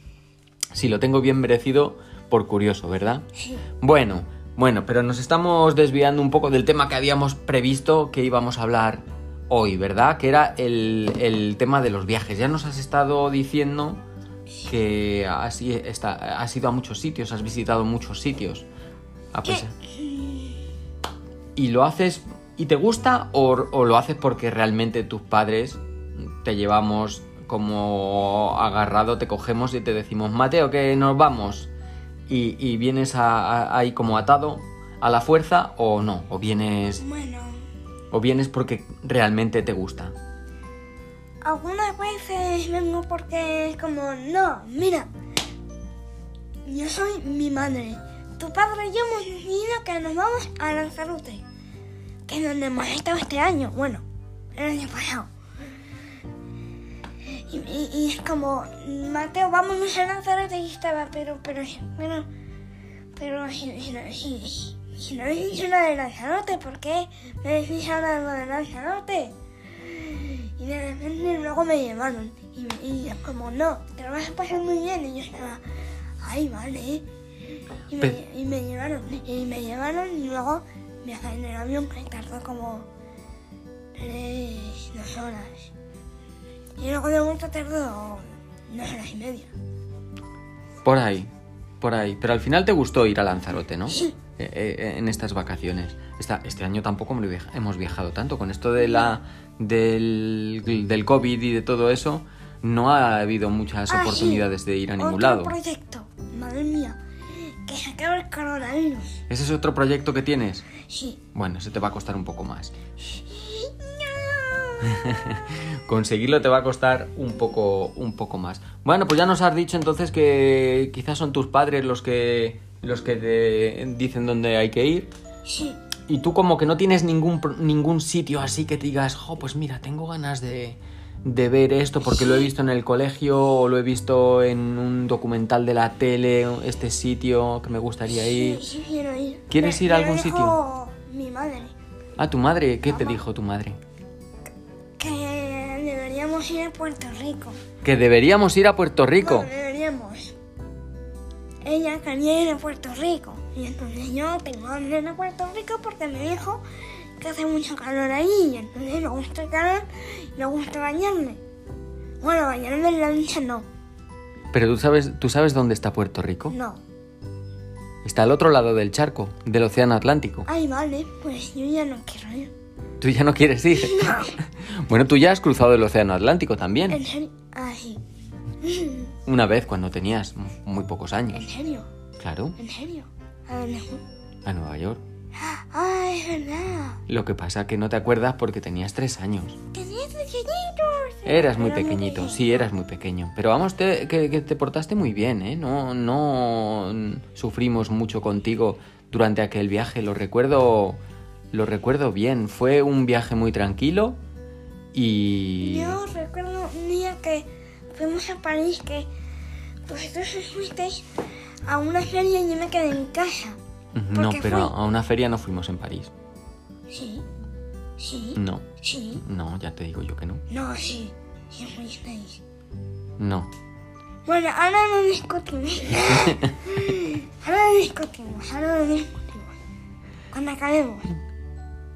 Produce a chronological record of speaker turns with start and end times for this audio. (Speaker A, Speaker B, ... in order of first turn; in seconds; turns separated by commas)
Speaker A: 0.7-3.2, Speaker A: 3.8-14.0, Speaker A: 14.7-18.7, Speaker A: 19.3-19.7, Speaker B: 19.5-20.6, Speaker A: 21.6-31.7, Speaker A: 32.3-37.0, Speaker B: 37.0-37.6, Speaker A: 38.1-40.1, Speaker B: 41.4-45.1, Speaker B: 46.7-51.4, Speaker B: 52.3-54.0, Speaker B: 54.5-55.3, Speaker B: 57.3-62.3, Speaker B: 63.2-75.6, Speaker B: 76.2-77.0, Speaker B: 77.9-82.9, Speaker B: 84.0-85.7, Speaker B: 86.8-89.5, Speaker A: 90.8-91.3, Speaker A: 91.8-105.5, Speaker B: 103.9-104.5, Speaker B: 105.0-109.2, Speaker A: 109.3-110.7, Speaker B: 110.8-111.2, Speaker A: 111.3-112.7, Speaker B: 113.1-115.1, Speaker A: 114.9-125.1, Speaker B: 125.5-125.8, Speaker A: 126.1-138.6, Speaker B: 132.1-132.5, Speaker B: 138.2-141.7, Speaker A: 139.5-140.6, Speaker A: 142.2-143.8, Speaker B: 142.9-143.2, Speaker B: 145.0-147.6, Speaker A: 147.8-149.5, Speaker B: 149.2-150.3, Speaker B: 151.6-156.6, Speaker B: 157.2-161.4, Speaker B: 162.2-163.7, Speaker A: 164.5-166.6, Speaker B: 166.5-166.8, Speaker A: 168.0-170.5, Speaker B: 170.5-172.5, Speaker A: 173.0-177.0, Speaker B: 173.7-174.4, Speaker B: 176.9-178.0, Speaker B: 178.6-179.1, Speaker A: 179.3-181.4, Speaker B: 181.3-181.9, Speaker A: 182.2-182.6, Speaker B: 182.6-184.0, Speaker A: 184.4-185.0, Speaker B: 185.4-187.0, Speaker A: 187.1-189.6, Speaker B: 189.7-192.7, Speaker A: 191.3-201.0, Speaker A: 201.5-204.2, Speaker A: 204.9-206.0, Speaker B: 205.6-209.1, Speaker B: 209.9-211.1, Speaker B: 211.7-213.6, Speaker A: 213.9-216.1, Speaker B: 214.1-214.7, Speaker B: 216.9-217.2, Speaker B: 218.0-219.2, Speaker A: 218.4-218.7, Speaker A: 219.2-220.4, Speaker B: 220.5-222.4, Speaker A: 223.2-223.5, Speaker B: 224.3-229.5, Speaker B: 230.3-231.1